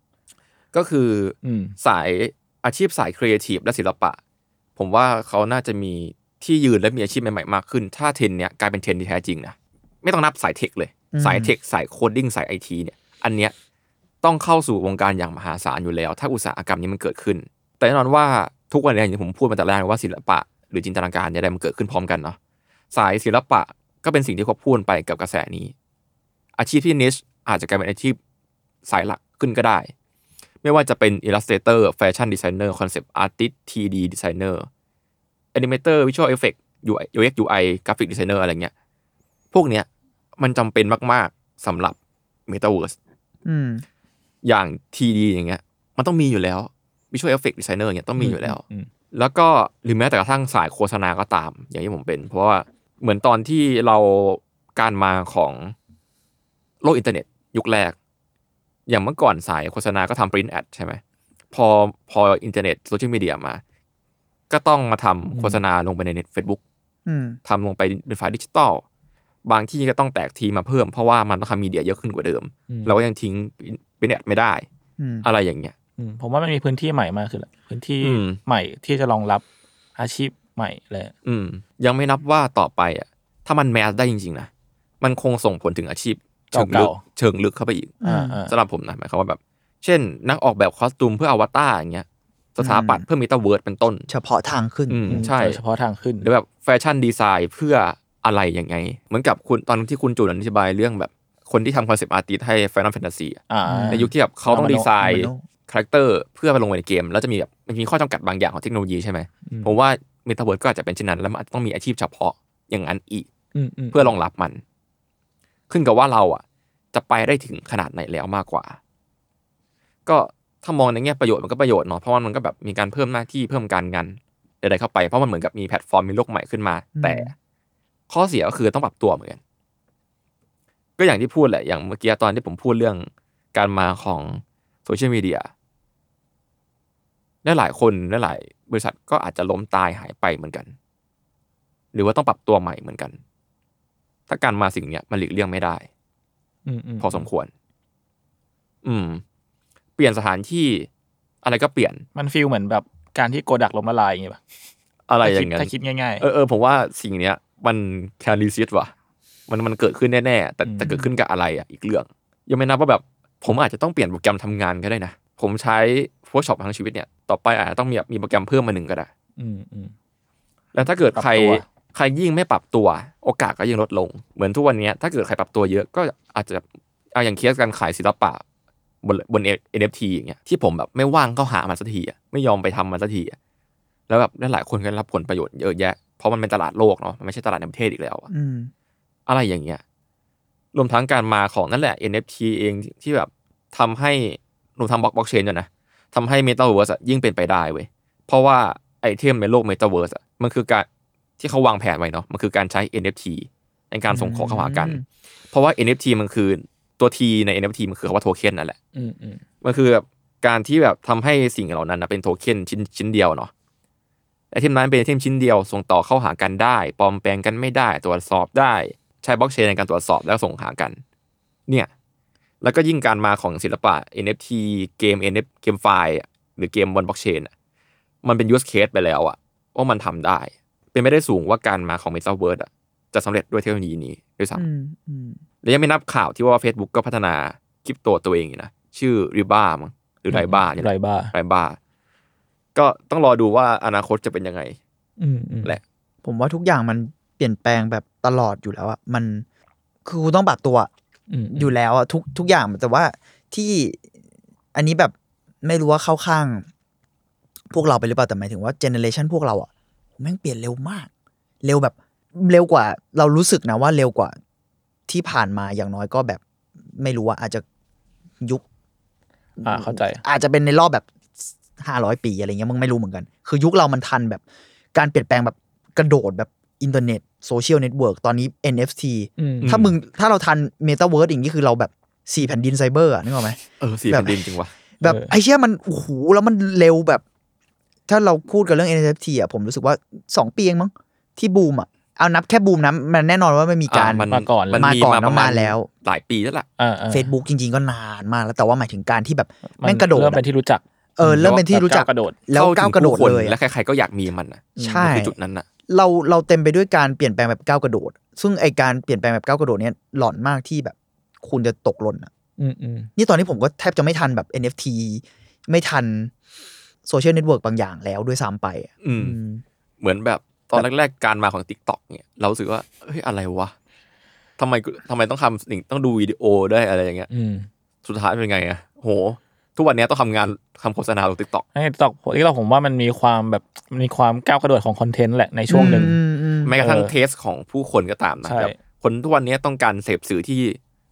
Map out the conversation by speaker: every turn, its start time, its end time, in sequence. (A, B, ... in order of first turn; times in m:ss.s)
0:00.7-0:04.2 A
0:01.4-0:01.8 B
0:04.8-0:13.5 A
0:11.1-0:11.6 C
0:14.2-0:22.4 A
0:22.9-0:25.7 A
0:26.6-0:28.2 A
0:28.9-0:29.9 A
0:30.6-0:34.7 A
0:35.5-0:38.7 A
0:39.5-0:39.9 A
0:40.4-0:42.0 A
0:42.5-0:43.0 A
0:43.4-0:43.8 C
0:44.4-0:48.6 A
0:48.2-0:48.9 B
0:49.1-0:55.8 A
0:56.8-0:58.0 A
0:58.9-1:01.0 A
1:01.5-1:03.6 A
1:04.5-1:06.6 A
1:05.3-1:05.6 B
1:07.1-1:07.4 C
1:07.5-1:08.8 A
1:09.4-1:14.7 A
1:12.7-1:13.0 B
1:15.0-1:15.3 C
1:15.2-1:15.7 A
1:16.0-1:19.4 B
1:18.0-1:18.4 A
1:20.0-1:21.1 B
1:21.2-1:24.5 A
1:25.0-1:34.1 A
1:26.5-1:27.0 B
1:28.0-1:28.4 C
1:28.0-1:28.5 B
1:32.6-1:33.0 C
1:34.1-1:35.2 C
1:34.9-1:35.6 A
1:35.1-1:36.3 B
1:36.2-1:53.3 A
1:43.5-1:44.9 B
1:43.7-1:44.1 C
1:45.0-1:45.4 C
1:49.5-1:49.7 B
1:53.6-1:54.1 B
1:53.9-1:54.6 A
1:55.7-1:56.4 A
1:56.9-1:58.8 A
2:00.1-2:07.3 A
2:07.0-2:07.3 C
2:08.1-2:09.4 A
2:11.0-2:15.5 A
2:17.4-2:20.7 A
2:21.9-2:23.2 A
2:24.3-2:25.9 A
2:26.7-2:27.2 B
2:27.0-2:27.5 A
2:28.8-2:29.2 A
2:30.0-2:30.9 A
2:31.4-2:32.0 A
2:32.2-2:34.4 B
2:35.1-2:38.9 A
2:35.2-2:36.2 B
2:39.5-2:49.1 A
2:40.6-2:41.1 B
2:49.4-2:49.9 B
2:50.7-2:58.4 A
2:51.2-2:51.6 B
2:59.0-3:03.4 A
3:04.1-3:08.3 A
3:08.3-3:08.7 C
3:09.3-3:09.8 A
3:10.7-3:20.9 A
3:21.4-3:28.8 A
3:24.1-3:25.0 C
3:29.0-3:29.4 B
3:29.6-3:33.5 A
3:34.5-3:41.0 A
3:42.6-3:47.5 A
3:48.2-3:54.7 A
3:54.6-3:55.4 C
3:55.6-4:01.8 A
4:00.3-4:01.3 B
4:02.8-4:04.8 A
4:05.2-4:05.8 B
4:06.2-4:09.4 C
4:10.0-4:10.9 C
4:11.3-4:11.8 B
4:11.5-4:14.0 C
4:14.7-4:16.7 C
4:17.7-4:21.1 C
4:21.6-4:24.4 C
4:25.1-4:26.4 C
4:26.9-4:27.6 C
4:29.6-4:34.4 C
4:29.6-4:30.2 B
4:34.9-4:43.6 C
4:39.4-4:39.9 B
4:39.6-4:39.9 A
4:43.8-4:44.7 A
4:44.1-4:44.4 C
4:45.0-4:47.2 C
4:45.0-4:45.3 B
4:48.1-4:55.9 C
4:53.9-4:56.7 A
4:54.3-4:55.0 B
4:56.8-4:57.3 B
4:57.1-5:00.4 C
4:59.8-5:02.4 B
5:01.2-5:03.6 C
5:01.4-5:01.6 A
5:02.5-5:05.7 A
5:04.8-5:05.4 C
5:05.9-5:12.3 C
5:12.6-5:13.1 B
5:13.2-5:16.3 C
5:17.0-5:19.6 C
5:19.0-5:19.4 A
5:20.0-5:23.7 A
5:24.6-5:27.3 A
5:27.3-5:27.7 B
5:28.0-5:31.6 A
5:31.8-5:36.2 B
5:35.7-5:36.7 C
5:36.6-5:40.8 A
5:36.8-5:37.1 B
5:38.4-5:38.8 B